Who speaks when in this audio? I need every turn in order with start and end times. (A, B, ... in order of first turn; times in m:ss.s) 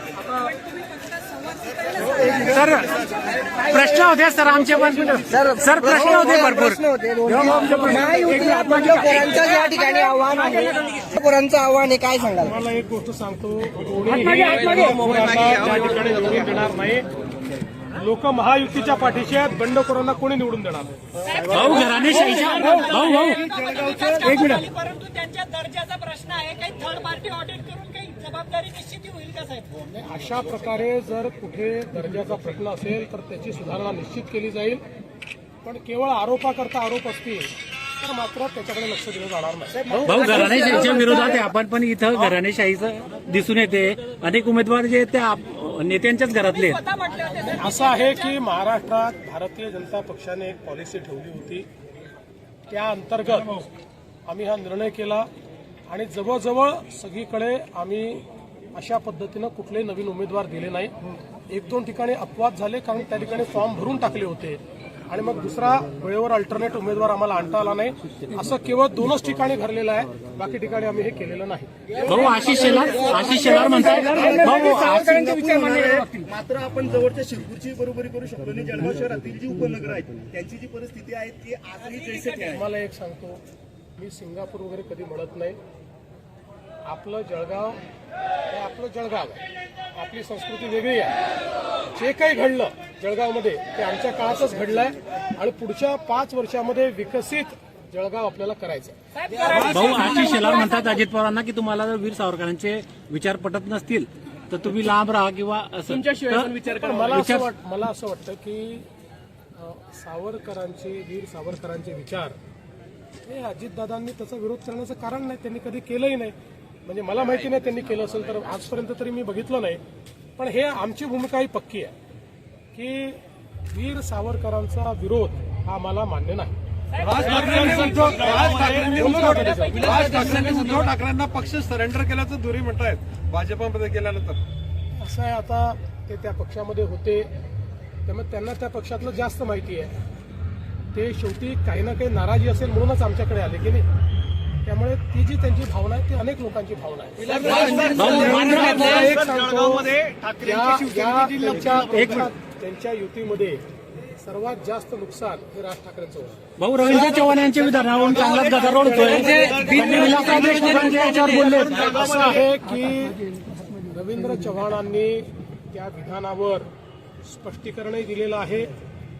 0:01.0-0:02.2 A
0:02.3-0:09.4 B
0:05.3-0:12.5 C
0:08.3-0:11.1 A
0:12.3-0:17.0 D
0:14.5-0:15.0 A
0:17.9-0:21.0 D
0:21.3-0:29.8 A
0:21.3-0:23.4 B
0:23.4-0:24.3 E
0:24.2-0:24.7 B
0:29.8-0:34.8 D
0:35.6-0:40.1 D
0:40.0-0:40.9 E
0:40.0-0:46.8 B
0:46.9-0:47.5 A
0:47.4-0:51.7 D
0:52.7-0:53.6 D
0:54.3-0:55.3 D
0:55.9-1:00.9 D
1:01.5-1:11.7 D
1:12.0-1:15.2 B
1:12.7-1:22.6 E
1:13.9-1:16.2 A
1:22.5-1:23.4 D
1:24.0-1:25.6 D
1:26.8-1:27.8 D
1:28.5-1:29.4 D
1:29.9-1:31.1 D
1:31.9-1:39.0 D
1:39.3-1:39.8 A
1:39.5-1:47.4 B
1:46.6-1:48.8 D
1:49.6-1:52.4 D
1:53.2-1:59.8 D
2:00.4-2:01.9 D
2:02.7-2:03.2 D
2:03.7-2:06.6 D
2:07.0-2:14.4 F
2:07.2-2:10.0 D
2:14.9-2:17.3 D
2:18.0-2:19.9 D
2:20.9-2:23.8 D
2:24.6-2:36.4 D
2:27.2-2:29.2 E
2:27.4-2:28.0 C
2:27.8-2:29.1 B
2:28.7-2:29.4 C
2:30.0-2:31.8 C
2:31.9-2:32.3 B
2:36.6-2:41.8 B
2:38.8-2:39.6 D
2:39.6-2:40.7 E
2:40.6-2:46.7 D
2:41.9-2:42.4 E
2:47.2-2:48.8 D